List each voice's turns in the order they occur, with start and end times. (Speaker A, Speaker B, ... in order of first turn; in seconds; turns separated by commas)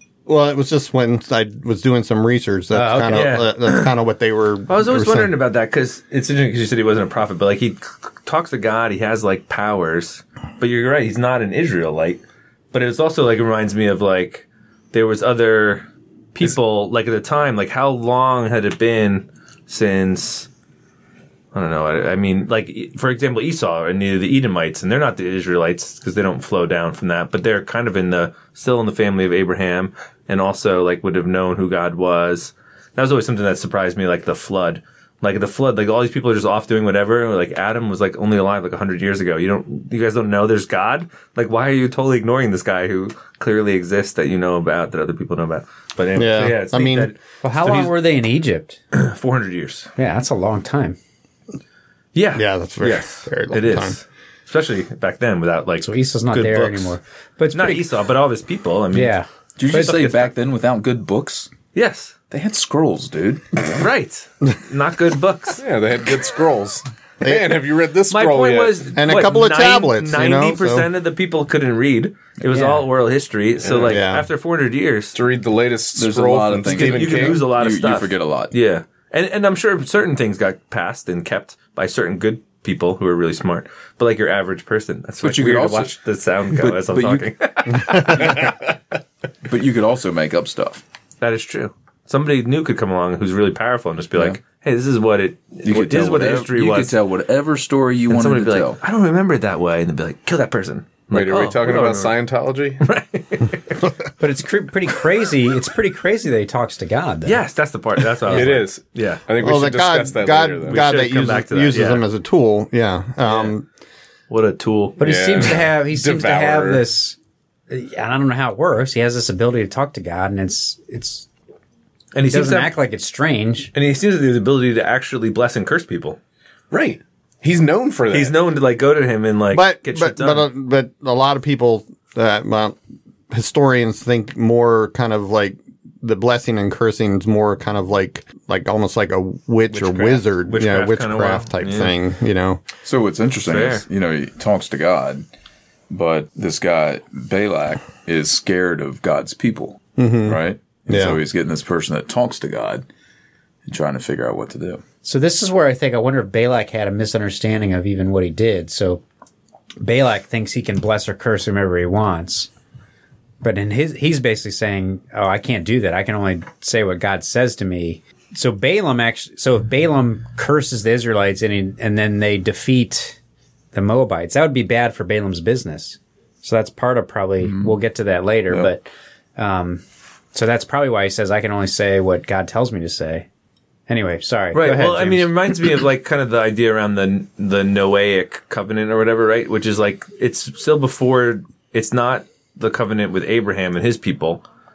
Speaker A: 0.3-5.3, Speaker B: 2.7-3.4, Speaker C: 3.1-3.9, Speaker C: 4.7-20.5, Speaker C: 21.5-47.9, Speaker A: 46.2-47.1, Speaker B: 47.4-48.8, Speaker C: 48.9-49.9, Speaker B: 50.0-51.0, Speaker C: 52.1-57.0, Speaker A: 52.4-54.0, Speaker B: 55.8-57.9, Speaker C: 57.5-59.1, Speaker B: 58.9-60.0, Speaker D: 59.6-61.5, Speaker C: 59.7-60.3, Speaker C: 61.7-62.2, Speaker D: 62.3-63.7, Speaker C: 63.7-65.6, Speaker E: 65.6-68.8, Speaker A: 67.2-67.6, Speaker C: 68.1-75.2, Speaker A: 69.0-70.9, Speaker B: 72.5-72.8, Speaker E: 73.6-74.0, Speaker A: 73.8-74.3, Speaker E: 75.1-77.5, Speaker D: 76.0-78.5, Speaker C: 76.7-88.5, Speaker D: 85.2-86.0, Speaker D: 86.5-88.5, Speaker D: 89.5-90.8, Speaker C: 91.2-97.0, Speaker D: 95.6-98.8, Speaker C: 98.1-102.2, Speaker E: 101.1-102.8, Speaker C: 102.8-103.8, Speaker B: 104.2-107.4, Speaker C: 107.2-109.2, Speaker E: 108.3-110.8, Speaker A: 109.4-113.7, Speaker C: 110.7-112.0, Speaker C: 114.3-115.0, Speaker E: 115.0-116.8, Speaker B: 115.0-117.2, Speaker B: 117.7-121.3, Speaker C: 122.1-122.7, Speaker B: 122.2-123.7, Speaker C: 123.7-126.2, Speaker E: 126.7-128.4, Speaker C: 128.1-130.5, Speaker A: 129.5-132.8, Speaker A: 133.3-142.6, Speaker C: 139.7-141.9, Speaker D: 142.8-145.3, Speaker C: 143.5-143.8, Speaker D: 145.9-152.9, Speaker A: 150.0-151.2, Speaker D: 153.7-154.8, Speaker B: 155.0-159.0, Speaker B: 159.8-162.5, Speaker B: 163.4-173.2, Speaker B: 173.7-179.8, Speaker D: 177.4-177.8, Speaker B: 180.3-183.3, Speaker B: 183.9-185.3, Speaker C: 184.5-194.4